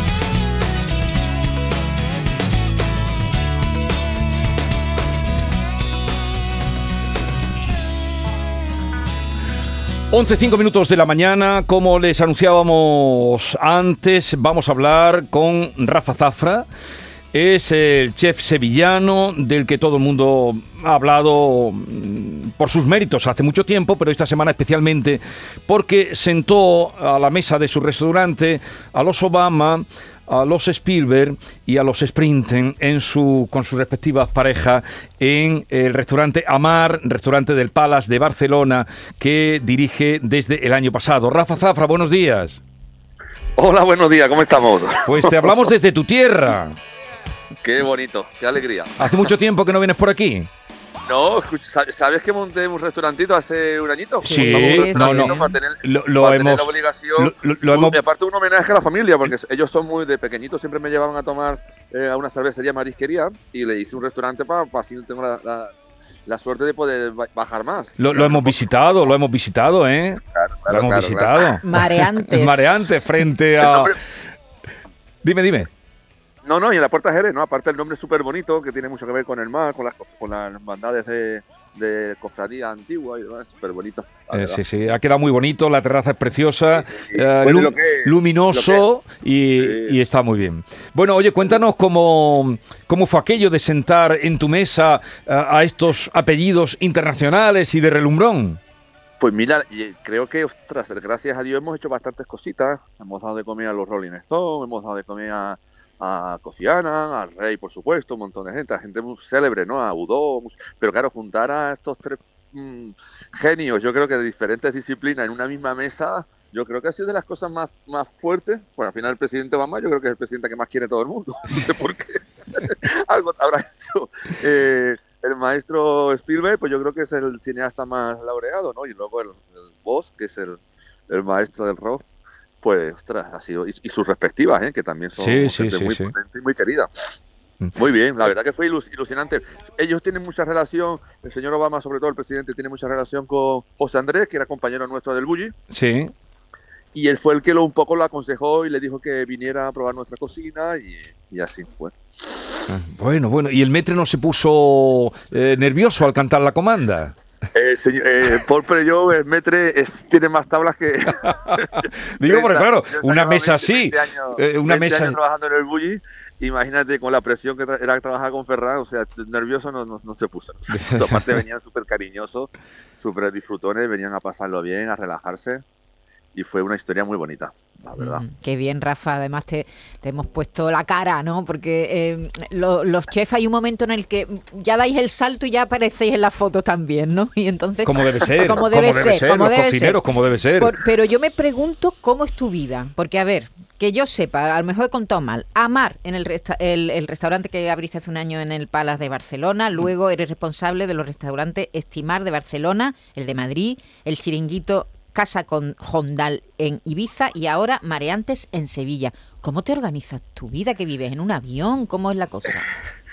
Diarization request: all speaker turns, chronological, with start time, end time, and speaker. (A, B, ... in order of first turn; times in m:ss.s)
0:10.1-0:16.6 A
0:17.3-0:42.6 A
0:43.6-0:45.5 B
0:45.0-0:46.8 A
0:47.6-0:49.3 B
0:49.0-0:50.5 A
0:51.0-1:05.7 B
0:54.2-0:55.5 C
0:54.2-0:58.0 A
1:06.2-1:08.6 B
1:08.0-1:13.9 A
1:10.2-1:11.6 B
1:11.6-1:12.9 C
1:13.6-1:14.0 B
1:15.2-1:15.7 A
1:16.4-1:24.6 B
1:24.3-1:38.6 A
1:26.7-1:28.8 B
1:29.6-1:30.0 B
1:39.2-2:12.0 B
2:12.6-2:16.9 B
2:15.1-2:16.1 A
2:17.6-2:18.3 A
2:17.8-2:25.5 B
2:25.7-2:26.1 A
2:26.9-2:31.9 B
2:32.7-2:37.1 A
2:37.5-2:55.6 B
2:41.4-2:45.2 A
2:50.7-2:51.2 A
2:56.3-2:58.2 B
2:58.0-3:10.0 C
3:07.8-3:10.7 A
3:10.6-3:32.7 C